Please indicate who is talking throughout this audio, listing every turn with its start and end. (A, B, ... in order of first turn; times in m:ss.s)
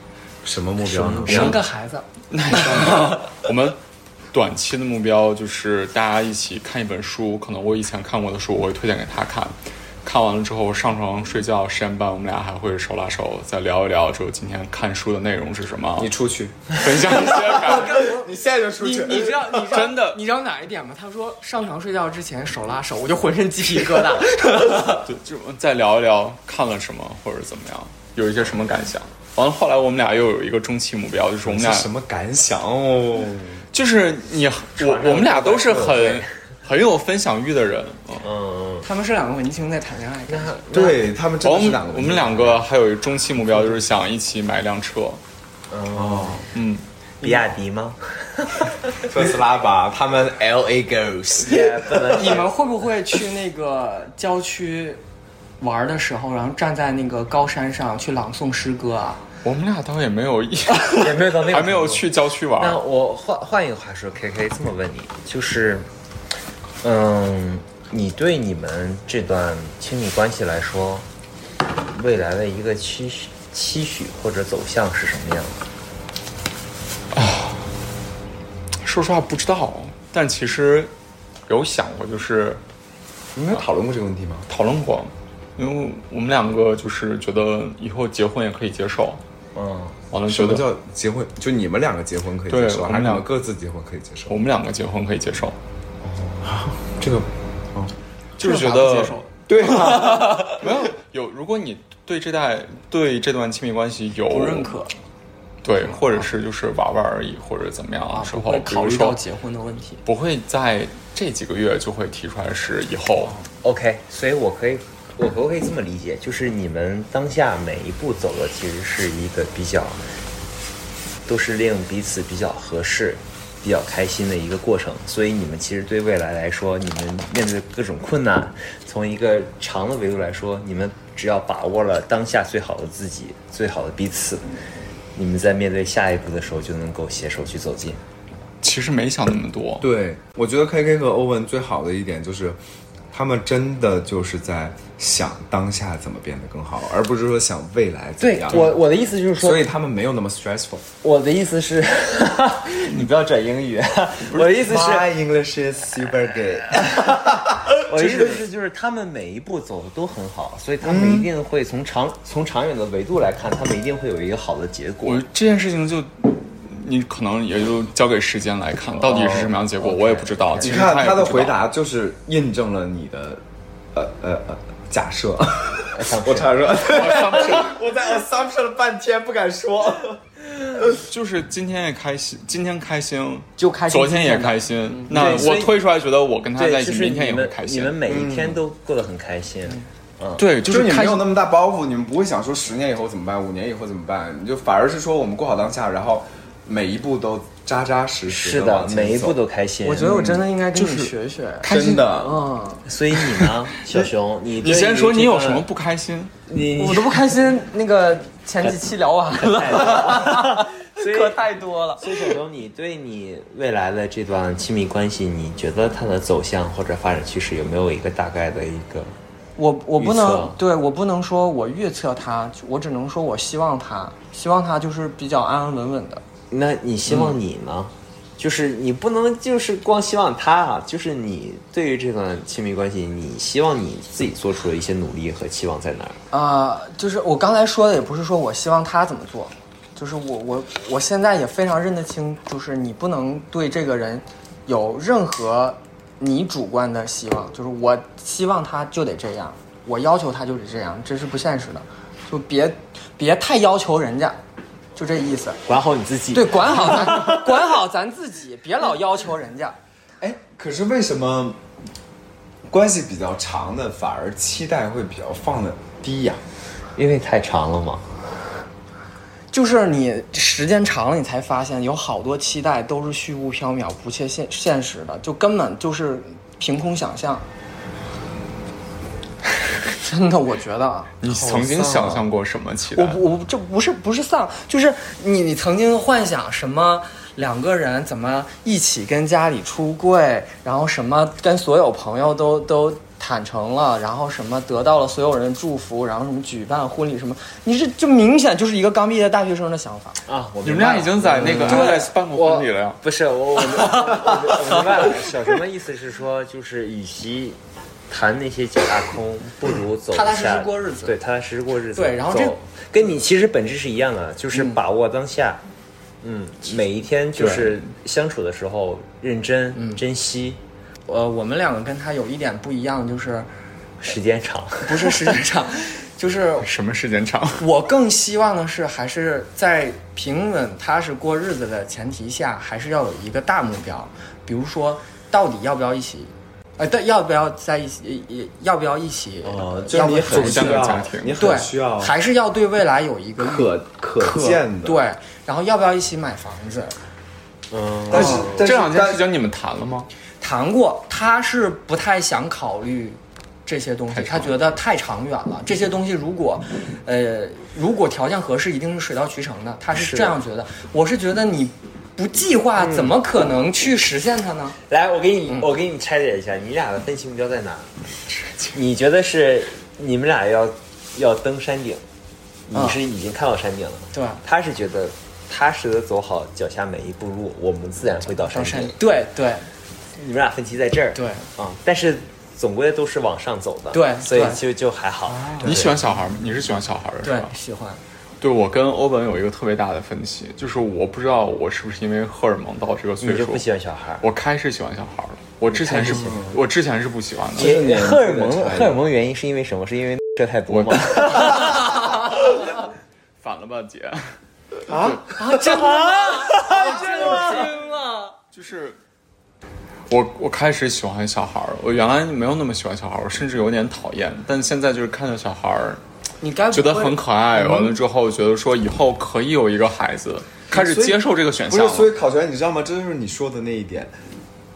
0:00.4-0:01.6 A
0:00.9-0:01.6 B
0:01.2-0:02.1 C
0:01.3-0:01.5 D
0:02.3-0:03.8 D
0:04.3-0:16.1 D
0:16.0-0:19.8 A
0:16.8-0:18.0 D
0:17.5-0:25.0 C
0:19.6-0:20.2 D
0:24.9-0:31.9 D
0:31.4-0:33.6 A
0:33.7-0:38.3 D
0:34.8-0:36.3 B
0:38.2-0:38.9 B
0:38.8-0:40.7 C
0:40.3-0:41.0 B
0:40.7-0:42.7 A
0:41.4-0:45.2 D
0:45.7-0:46.5 B
0:45.9-0:46.5 A
0:46.5-0:46.8 D
0:47.2-0:49.1 B
0:49.0-0:52.4 A
0:51.4-0:52.5 B
0:52.1-0:55.0 C
0:55.6-0:59.2 C
0:59.4-1:02.8 D
1:00.9-1:05.9 B
1:06.8-1:11.1 B
1:11.8-1:15.6 B
1:17.1-1:17.6 D
1:18.8-1:20.9 D
1:21.5-1:22.6 D
1:23.4-1:24.5 A
1:24.5-1:29.2 D
1:29.6-1:30.0 B
1:30.1-1:30.7 D
1:30.3-1:34.4 A
1:32.5-1:33.3 D
1:34.3-1:35.6 D
1:36.0-1:36.5 B
1:36.4-1:37.9 A
1:38.4-1:44.7 D
1:38.4-1:39.3 C
1:39.5-1:40.7 A
1:44.3-1:44.9 C
1:45.6-1:49.2 D
1:45.8-1:46.1 C
1:48.1-1:50.0 C
1:50.1-1:53.4 D
1:53.6-2:00.0 B
2:01.3-2:14.4 B
2:15.2-2:18.0 B
2:18.6-2:19.9 D
2:19.8-2:22.6 A
2:23.1-2:28.8 A
2:28.2-2:29.6 B
2:28.5-2:28.8 D
2:29.4-2:30.9 A
2:31.0-2:35.1 B
2:34.4-2:38.4 A
2:37.8-2:45.2 B
2:40.8-2:41.3 A
2:45.0-2:51.6 D
2:49.0-2:50.9 B
2:50.6-3:01.0 A
2:55.9-2:56.8 B
2:56.8-2:57.8 D
3:01.0-3:08.0 D
3:03.6-3:05.5 C
3:05.1-3:05.8 B
3:06.6-3:10.4 B
3:08.0-3:08.6 A
3:10.4-3:11.3 D
3:10.6-3:19.4 A
3:18.3-3:20.1 B
3:19.8-3:22.9 C
3:20.1-3:20.4 A
3:20.1-3:22.1 D
3:21.6-3:22.4 A
3:22.8-3:25.6 B
3:23.2-3:23.5 D
3:24.6-3:26.3 D
3:26.5-3:27.3 B
3:26.8-3:32.4 C
3:29.4-3:31.5 B
3:32.0-3:39.1 B
3:39.6-3:46.2 C
3:40.0-3:40.6 B
3:46.5-3:56.2 B
3:47.1-3:47.4 D
3:56.3-4:14.4 C
4:15.0-4:15.6 C
4:15.7-4:17.6 B
4:16.3-4:19.8 C
4:20.2-4:21.6 A
4:22.7-4:26.4 A
4:27.0-4:28.1 B
4:29.5-4:37.4 C
4:39.9-4:41.6 C
4:41.2-4:43.2 D
4:41.3-4:42.2 A
4:42.9-5:00.2 C
5:00.3-5:15.6 B
5:00.6-5:03.0 D
5:01.6-5:02.1 C
5:04.6-5:05.0 D
5:10.1-5:11.2 C
5:12.0-5:12.6 C
5:14.5-5:14.8 C
5:16.2-5:20.6 B
5:17.4-5:17.8 D
5:19.8-5:20.0 C
5:21.1-5:23.5 C
5:24.0-5:25.4 B
5:24.8-5:26.7 C
5:26.6-5:27.7 D
5:27.6-5:47.0 C
5:39.4-5:42.1 A
5:40.3-5:41.4 D
5:43.4-5:45.0 A
5:47.7-5:48.7 B
5:48.1-5:49.2 A
5:48.1-5:50.1 D
5:48.2-5:48.5 C
5:50.4-6:04.8 C
5:54.1-5:54.6 D
5:59.9-6:00.4 B
6:02.8-6:03.2 B
6:04.9-6:07.9 B
6:08.4-6:08.7 D
6:08.7-6:12.0 B
6:12.7-6:19.0 B
6:12.7-6:13.0 C
6:14.1-6:14.4 C
6:18.3-6:19.7 C
6:20.2-6:26.0 B
6:21.2-6:21.5 C
6:23.9-6:24.6 C
6:25.3-6:25.9 C
6:25.6-6:27.5 D
6:27.2-6:28.0 C
6:28.4-6:33.6 D
6:33.2-6:34.2 B
6:34.2-6:37.8 D
6:35.7-6:36.4 B
6:35.9-6:36.6 A
6:37.5-6:39.0 A
6:37.6-6:42.1 B
6:40.7-6:41.8 D
6:43.4-6:44.4 D
6:44.9-6:48.4 C
6:44.9-6:45.2 D
6:45.6-6:47.1 B
6:48.5-6:49.0 D
6:50.1-6:56.0 D
6:56.4-6:57.9 C
6:56.7-7:02.1 D
7:00.7-7:04.2 A